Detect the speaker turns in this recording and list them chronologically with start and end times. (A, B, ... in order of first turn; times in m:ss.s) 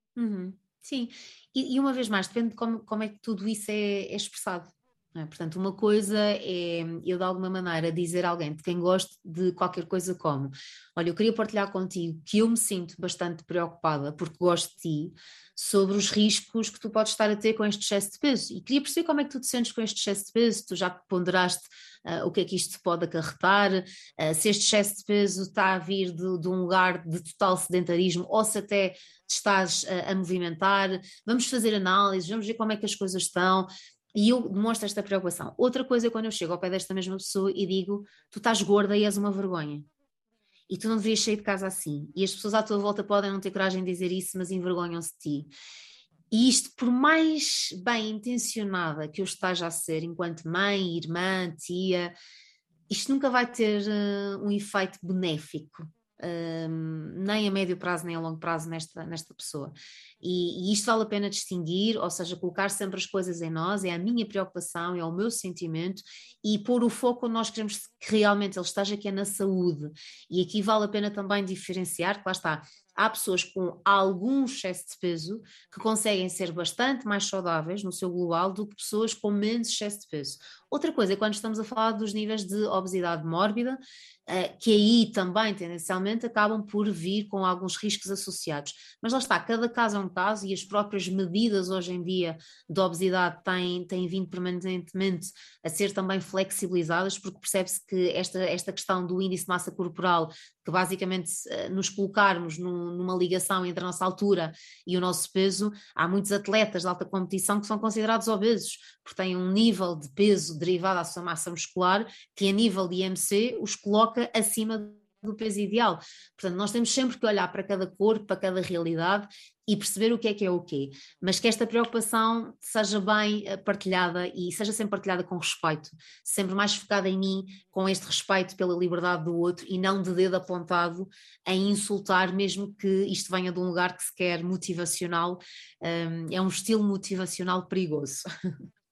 0:00.2-0:39.9 A
0:40.7-0:45.5 A
0:46.3-0:52.1 A
0:52.9-2:18.3 A